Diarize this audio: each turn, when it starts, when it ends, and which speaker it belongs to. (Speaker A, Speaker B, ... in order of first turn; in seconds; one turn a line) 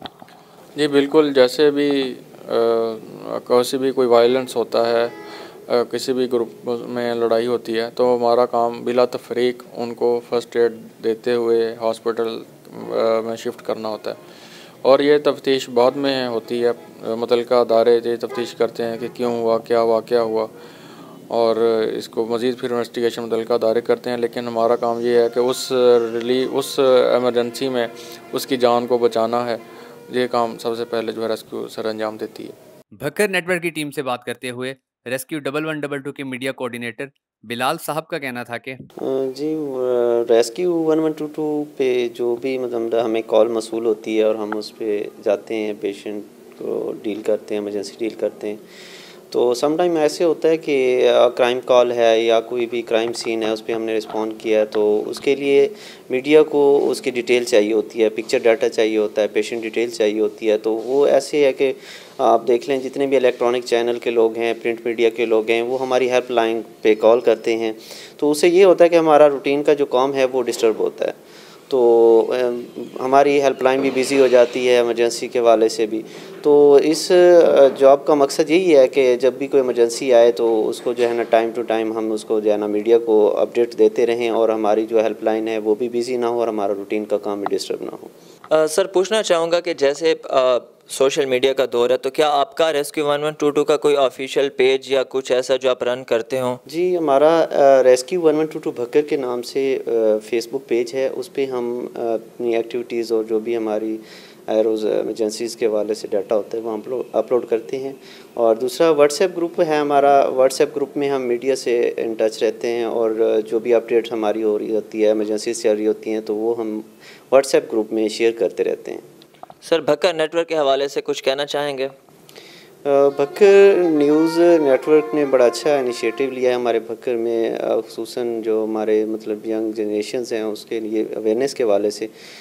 Speaker A: 0.7-5.2
Speaker A: 5.7-14.2
Speaker A: 14.8-20.5
Speaker A: 21.3-32.6
Speaker B: 33.1-34.7
Speaker A: 33.8-35.0
Speaker B: 35.4-36.4
Speaker A: 36.6-36.9
Speaker B: 37.6-38.7
Speaker C: 39.0-48.6
Speaker C: 49.3-71.2
Speaker C: 71.7-88.1
Speaker D: 88.5-96.6
Speaker C: 96.7-119.1
Speaker D: 119.6-121.9
Speaker C: 122.8-132.1